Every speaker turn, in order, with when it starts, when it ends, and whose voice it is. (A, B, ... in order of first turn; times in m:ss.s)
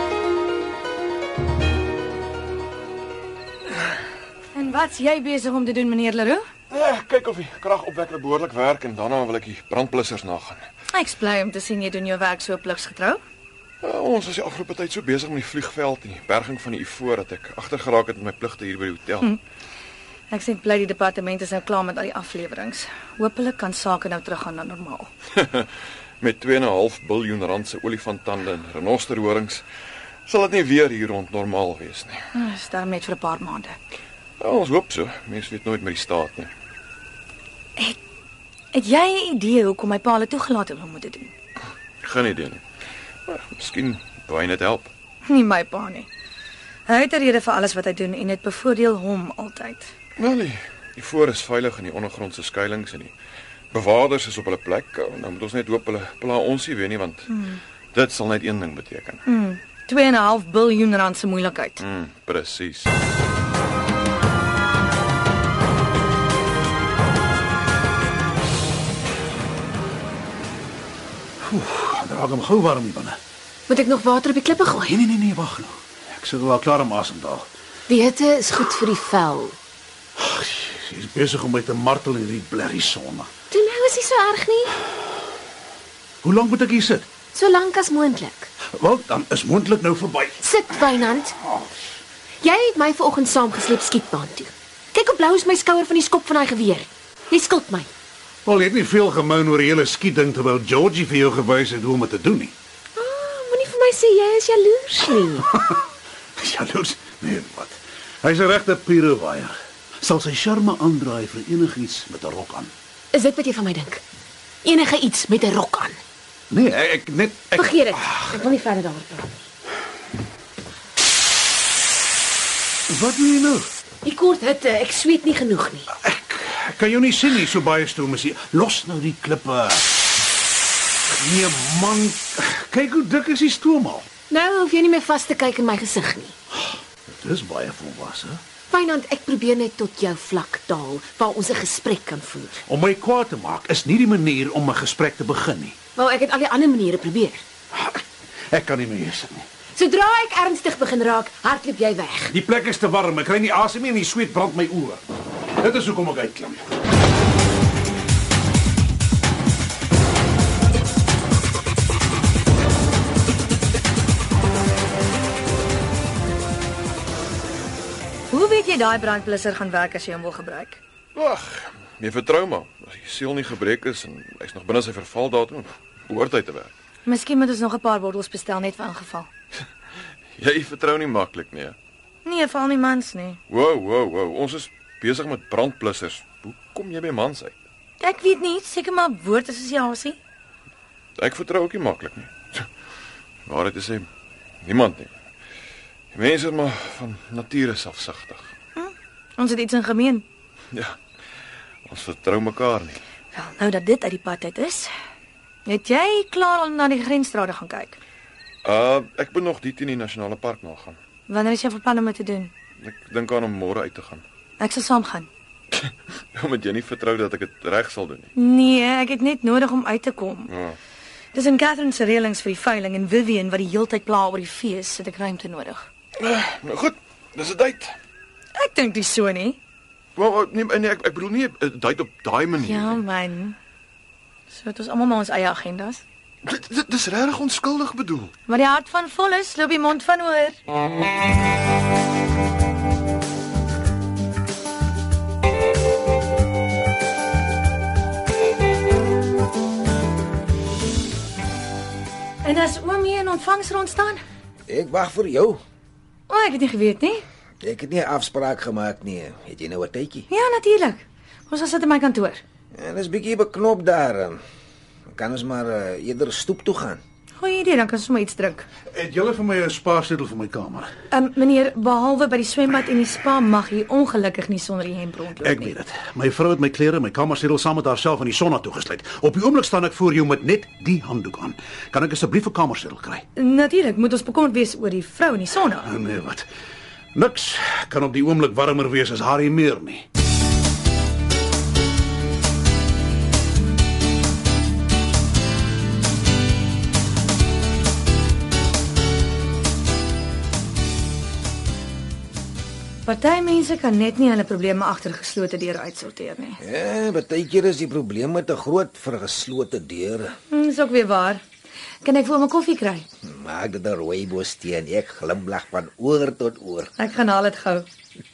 0:04.5-0:06.4 A
0:06.7-0:10.6 B
0:10.9-0:13.2 A
0:13.8-0:19.3 B
0:20.3-0:25.1 A
0:25.4-0:29.6 B
0:30.2-0:32.2 B
0:32.3-0:33.8 A
0:34.4-0:36.5 B
0:38.7-0:41.3 A
0:42.0-0:42.6 B
0:43.3-0:44.9 B
0:45.3-0:46.1 A
0:46.9-0:49.9 A
0:50.2-0:53.1 B
0:53.7-0:57.3 B
0:57.3-0:57.6 A
0:57.9-0:59.2 B
0:59.2-1:01.8 A
1:01.8-1:02.9 B
1:11.4-1:13.2 C
1:13.7-1:14.9 D
1:14.8-1:17.5 C
1:17.9-1:19.6 D
1:20.2-1:23.3 C
1:23.5-1:24.7 D
1:26.2-1:27.1 C
1:27.3-1:28.5 D
1:28.7-1:31.0 C
1:30.4-1:31.3 D
1:32.4-1:37.9 D
1:38.4-1:42.5 C
1:43.0-1:45.4 D
1:46.4-1:52.7 C
1:53.1-1:54.0 D
1:54.6-1:56.0 D
1:56.5-1:58.4 C
1:57.6-1:59.3 D
2:02.9-2:03.7 C
2:04.0-2:05.8 D
2:05.9-2:09.9 C
2:11.1-2:14.1 C
2:14.3-2:16.3 D
2:16.6-2:18.4 C
2:18.7-2:22.6 D
2:22.7-2:25.8 C
2:26.0-2:27.4 D
2:27.7-2:29.5 C
2:29.7-2:32.3 D
2:32.3-2:35.0 C
2:35.6-2:36.7 C
2:48.3-2:50.8 A
2:51.1-2:56.7 B
2:57.0-2:59.3 A
3:00.4-3:01.8 B
3:02.2-3:03.4 A
3:03.5-3:07.5 B
3:08.0-3:10.2 A
3:11.2-3:12.7 B
3:13.4-3:14.1 B
3:14.6-3:15.1 B
3:16.1-3:18.5 B
3:18.8-3:20.2 A
3:21.9-3:23.0 B
3:23.3-3:24.9 A
3:25.6-3:28.0 A
3:28.6-3:31.0 B
3:31.3-3:32.5 A
3:32.8-3:34.2 B
3:34.6-3:35.3 A
3:35.7-3:38.3 B
3:38.4-3:40.5 A
3:40.5-3:40.8 B
3:41.3-3:45.8 A
3:46.2-3:48.0 B
3:48.6-3:49.6 A
3:50.2-3:53.0 B
3:52.6-3:53.6 A
3:54.5-3:56.0 A
3:56.4-3:58.3 B
3:58.5-4:00.6 A
4:12.4-4:14.2 A
4:14.7-4:15.6 E
4:16.3-4:17.2 A
4:17.6-4:20.3 E
4:20.3-4:22.4 A
4:22.7-4:24.4 E
4:25.1-4:27.0 E
4:27.4-4:28.6 A
4:28.9-4:30.9 C
4:31.1-4:35.7 A
4:35.4-4:43.2 C
4:43.4-4:45.9 A
4:45.8-4:46.4 C
4:47.1-4:50.0 C
5:03.0-5:06.6 A
5:06.6-5:10.4 E
5:10.5-5:11.4 A
5:12.0-5:13.0 A
5:13.2-5:16.9 E
5:17.0-5:17.9 A